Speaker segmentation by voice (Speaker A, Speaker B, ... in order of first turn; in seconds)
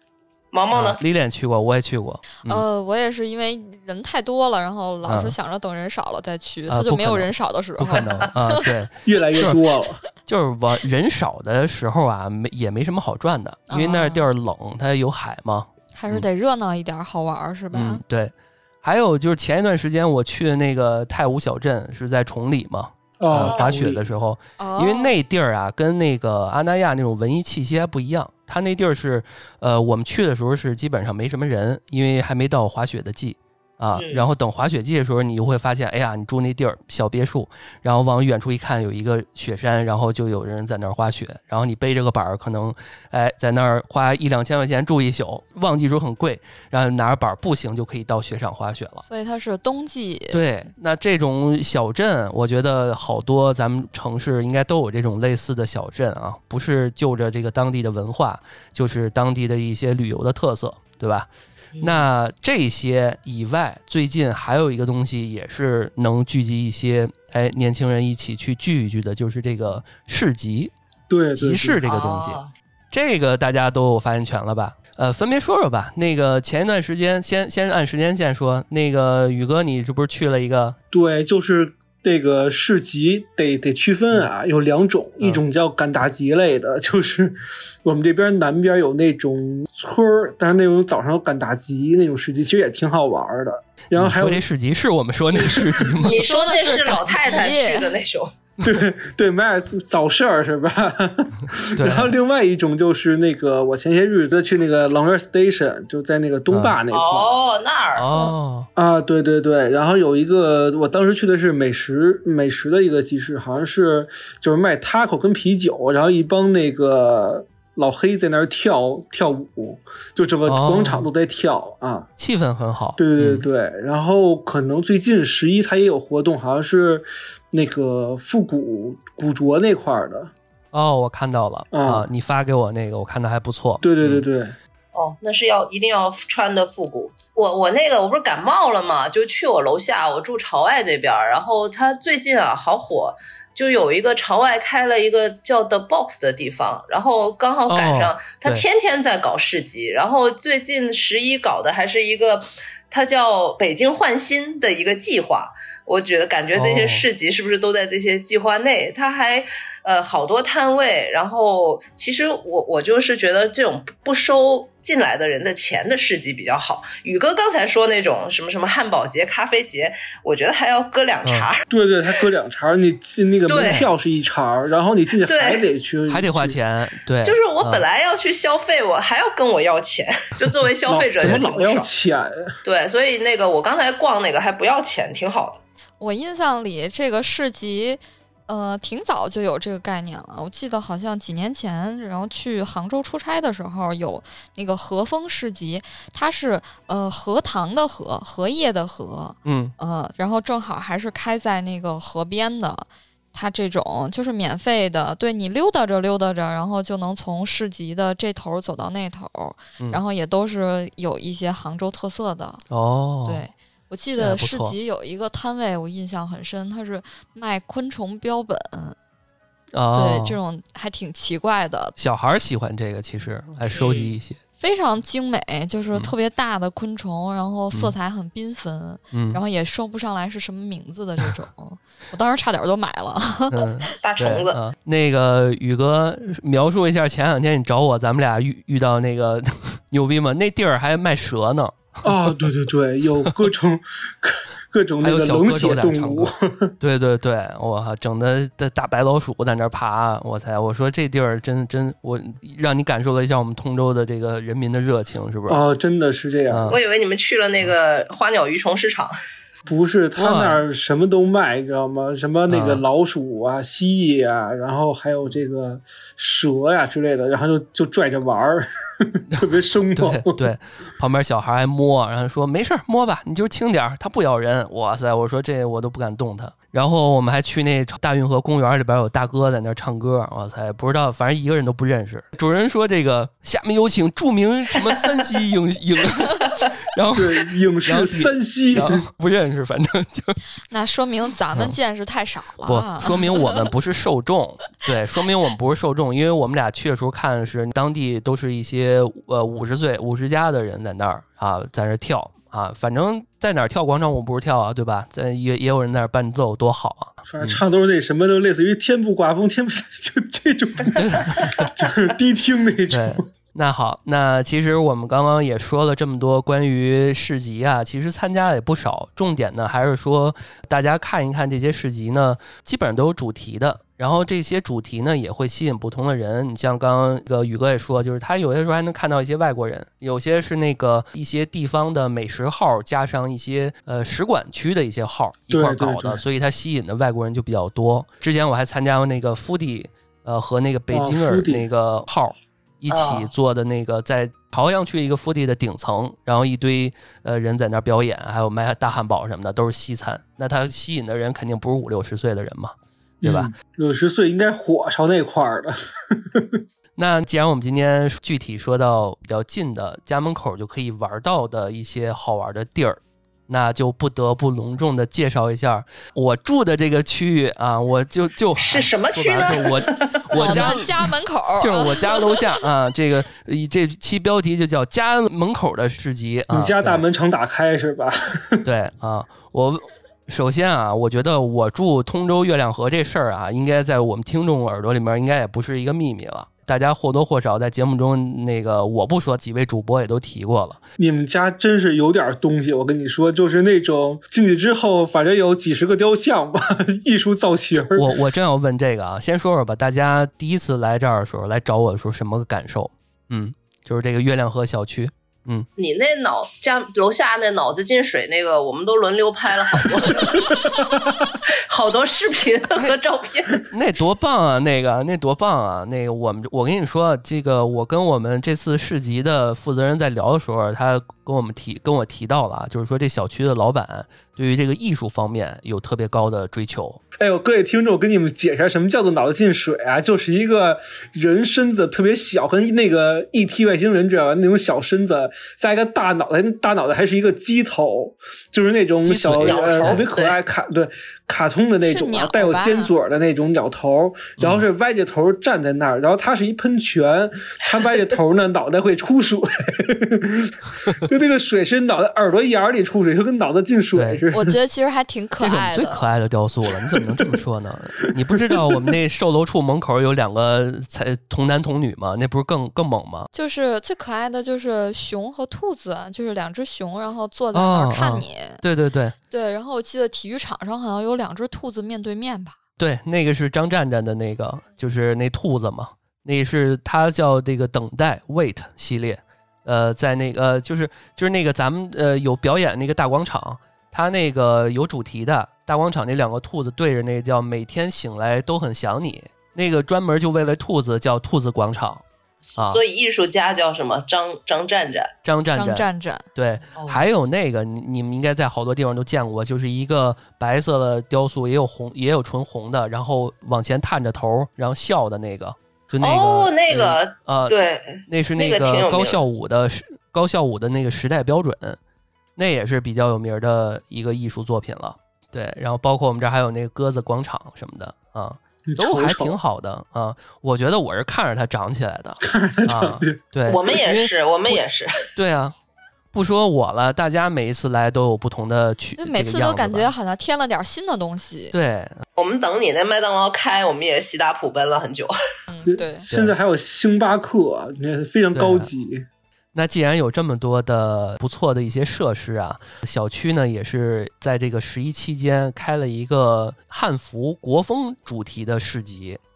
Speaker A: 0.5-1.0, 23.4-23.8, 33.9-34.3, 61.7-62.1, 71.8-72.5, 96.0-98.3, 106.9-108.3, 134.9-171.6, 173.5-173.8, 175.2-175.6, 177.2-181.9, 182.6-185.6, 223.7-224.1, 234.0-234.6, 256.7-259.1, 368.6-370.8, 405.8-413.6, 439.4-440.4, 492.5-495.1, 496.8-497.1, 506.0-509.2, 523.5-525.1, 532.1-535.1
Speaker B: 0.7-2.6, 5.0-5.3, 6.7-9.6, 10.2-16.3, 17.7-49.0, 50.3-61.3, 61.8-70.7, 71.4-72.4, 72.9-80.8, 93.9-96.2, 101.7-102.1, 106.5-106.8, 108.0-108.7, 120.5-121.1, 122.2-123.4, 130.7-134.2, 147.7-148.6, 156.5-157.1, 171.2-171.5, 173.6-173.9, 176.1-177.8, 181.2-181.5, 199.4-199.7, 212.7-213.4, 214.2-214.8, 219.7-220.4, 222.0-224.4, 229.1-229.4, 233.5-242.0, 245.0-255.6, 256.5-256.8, 260.1-260.6, 262.5-262.8, 269.9-290.4, 292.6-307.6, 311.0-311.7, 312.9-353.5, 357.0-371.0, 371.6-377.0, 378.6-390.8, 397.8-405.7, 413.6-427.0, 439.0-440.1, 444.4-444.6, 453.9-454.2, 455.4-463.3, 467.5-469.1, 472.8-492.0, 492.6-492.8, 495.2-511.8, 512.4-524.6, 525.1-525.5, 526.1-529.9, 531.5-532.0, 536.1-536.3, 538.3-538.7, 539.5-549.2
Speaker C: 2.5-8.7, 13.7-14.2, 15.9-18.0, 24.6-25.1, 49.1-50.4, 96.0-98.0, 186.0-212.6, 213.2-218.9, 219.9-221.9, 224.6-233.9, 290.7-293.7, 370.3-372.4, 441.8-442.9, 454.3-456.0, 463.3-468.6, 469.3-472.6, 495.5-496.2, 529.0-531.5, 535.5-536.1
Speaker D: 9.0-10.0, 23.2-24.0, 71.1-71.8, 80.9-94.4, 95.3-95.9, 98.6-107.4, 108.8-122.1, 123.0-130.3, 131.7-132.1, 133.8-134.6, 171.7-176.6, 180.9-182.3, 242.0-246.7, 255.5-256.8, 259.6-270.5, 287.1-289.1, 307.2-313.3, 335.5-336.2, 340.9-341.7, 342.9-343.2, 353.2-356.6, 376.5-378.6, 391.0-398.1, 427.2-454.5, 518.7-519.4, 522.2-523.2, 535.6-539.0